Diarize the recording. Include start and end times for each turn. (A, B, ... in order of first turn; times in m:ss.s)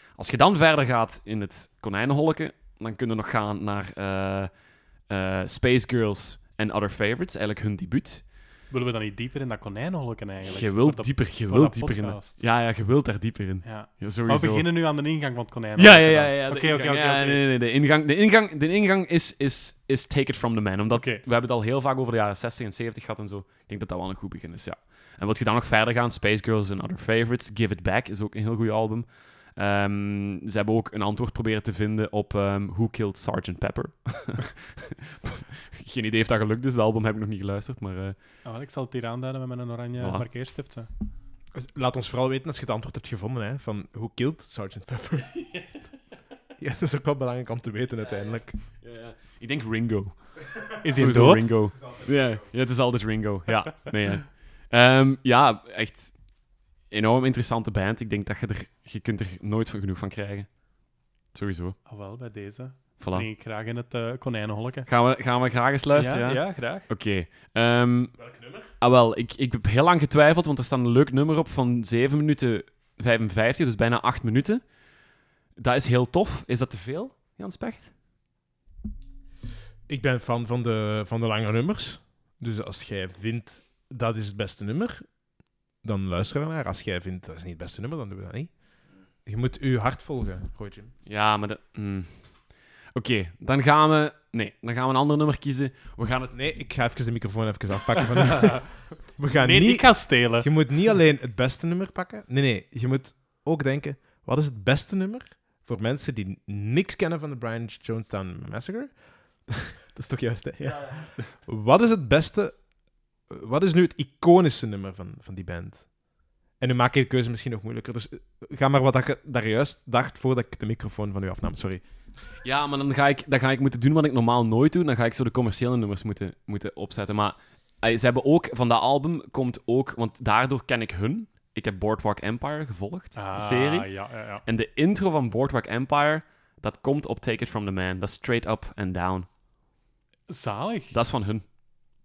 0:00.2-0:04.5 A
0:05.1-0:08.4 A
0:08.7-0:12.5 B
0:10.4-0:14.7 A
0:13.6-0:17.4 B
0:15.8-0:38.2 A
0:20.9-0:21.2 B
0:38.4-0:40.9 B
0:40.0-0:40.3 A
0:41.5-0:45.3 C
0:45.2-0:45.8 A
0:46.6-0:48.6 C
0:48.2-1:01.8 A
0:50.8-0:51.5 B
1:01.8-1:04.9 B
1:03.0-1:03.3 A
1:04.9-1:14.8 A
1:05.9-1:06.9 B
1:08.2-1:08.7 C
1:15.6-1:17.9 A
1:19.9-1:25.1 C
1:25.8-1:30.9 C
1:31.1-1:36.4 A
1:36.3-1:52.6 C
1:39.3-1:40.7 B
1:53.3-1:56.0 C
1:56.6-2:01.8 C
2:02.4-2:19.3 A
2:13.2-2:14.4 B
2:20.3-2:21.0 B
2:20.9-2:21.4 A